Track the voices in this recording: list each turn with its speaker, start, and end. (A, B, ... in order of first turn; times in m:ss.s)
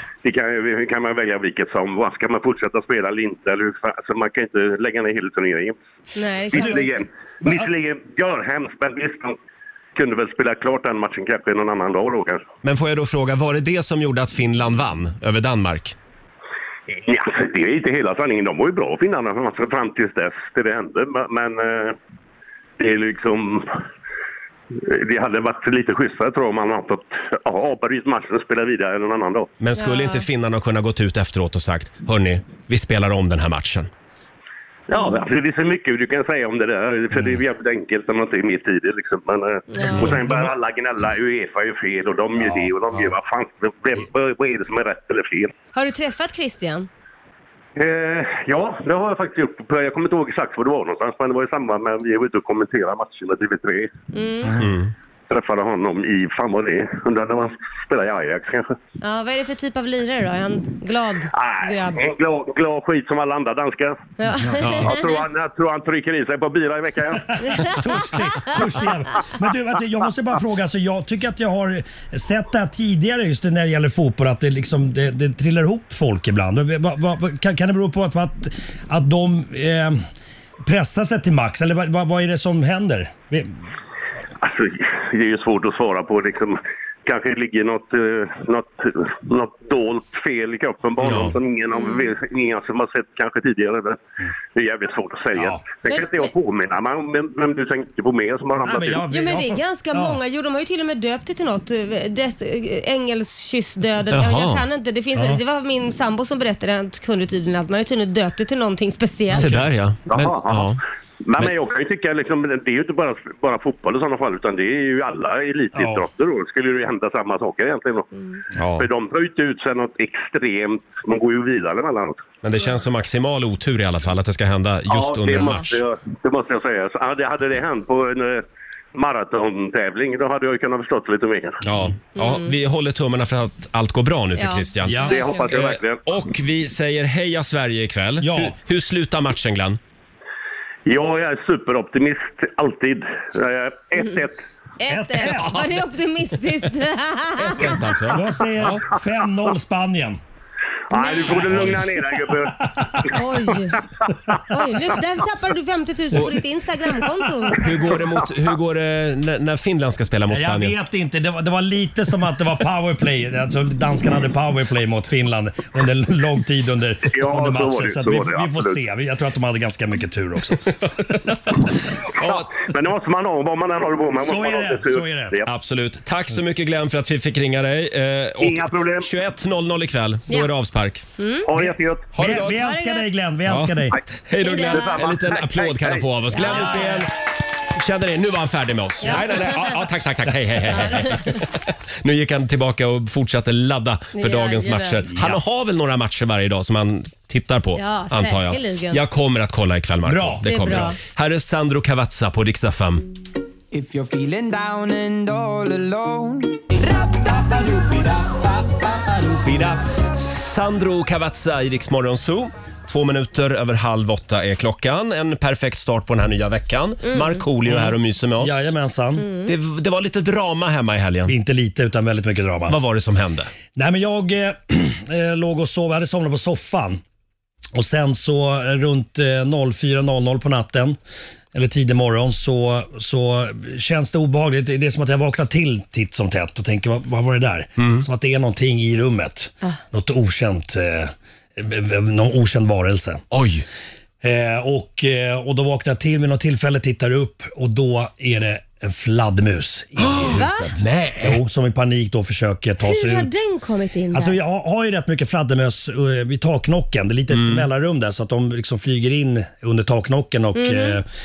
0:00.2-0:05.8 A
0:06.2-0:07.1 B
0:06.5-0:09.4 A
0:06.5-0:06.8 C
0:07.4-0:07.7 C
0:10.0-0:12.5 A
0:12.6-0:16.0 D
0:16.9-0:22.0 A
0:22.8-0:23.8 A
0:24.7-0:29.5 A
0:29.6-0:33.9 D
0:29.8-0:30.2 B
0:34.9-0:45.5 A
0:39.7-0:40.0 B
0:39.9-0:40.5 C
0:42.4-0:42.7 C
0:45.7-0:46.9 B
0:47.8-0:53.9 A
0:54.1-0:54.6 B
0:54.6-0:54.9 D
0:55.3-0:58.8 A
0:59.0-1:02.0 B
1:01.3-1:04.0 A
1:04.2-1:05.1 B
1:04.4-1:04.7 C
1:04.6-1:04.9 D
1:04.8-1:07.3 A
1:07.2-1:20.0 C
1:07.5-1:07.8 B
1:20.6-1:23.5 C
1:24.4-1:34.0 A
1:31.0-1:31.3 D
1:31.7-1:32.1 B
1:34.5-1:39.1 A
1:35.4-1:35.7 C
1:35.9-1:36.3 B
1:38.6-1:40.2 C
1:39.1-1:49.5 B
1:44.1-1:44.6 D
1:45.2-1:45.4 C
1:49.3-1:49.7 C
1:49.3-1:50.8 D
1:50.1-1:58.1 A
1:55.8-1:56.0 C
1:58.8-2:02.4 A
2:02.4-2:05.8 D
2:04.9-2:11.6 A
2:11.6-2:19.8 D
2:12.2-2:12.5 B
2:14.4-2:15.5 B
2:14.8-2:15.2 C
2:15.0-2:16.2 A
2:18.2-2:18.6 C
2:20.9-2:24.4 A
2:24.8-2:27.8 B
2:24.9-2:25.8 C
2:27.5-2:28.8 D
2:27.6-2:30.2 C
2:30.9-2:34.1 A
2:30.9-2:31.5 B
2:31.5-2:31.8 D
2:31.5-2:33.1 C
2:33.1-2:33.8 B
2:34.5-2:37.7 B
2:37.6-2:40.8 D
2:40.3-2:51.7 C
2:47.0-2:48.8 A
2:52.2-2:52.5 D
2:52.2-2:55.5 A
2:54.2-2:55.4 C
2:55.5-3:01.1 D
2:58.4-2:59.1 A
3:01.2-3:01.5 B
3:01.5-3:02.2 A
3:01.6-3:04.0 C
3:02.1-3:02.7 D
3:02.4-3:03.1 B
3:03.5-3:07.1 D
3:04.4-3:05.0 B
3:04.6-3:06.2 A
3:06.3-3:06.9 B
3:06.4-3:07.0 C
3:07.7-3:23.0 D
3:09.0-3:09.8 B
3:10.7-3:11.4 B
3:14.2-3:15.1 B
3:15.1-3:15.4 C
3:17.8-3:19.0 B
3:20.1-3:20.9 C
3:20.4-3:21.0 B
3:23.8-3:26.5 E
3:27.4-3:28.1 E
3:29.4-3:38.7 D
3:37.1-3:37.4 B
3:37.7-3:39.3 C
3:39.2-3:39.5 B
3:39.5-3:41.3 D
3:41.3-3:42.8 C
3:42.7-3:43.5 D
3:43.7-3:47.0 C
3:47.8-3:51.0 C
3:51.5-4:03.2 C
3:57.8-3:58.1 D
4:03.3-4:03.6 D
4:04.2-4:13.4 C
4:10.0-4:11.4 D
4:10.3-4:10.7 B
4:12.8-4:14.4 B
4:14.1-4:21.1 C
4:17.3-4:17.7 D
4:20.6-4:21.0 B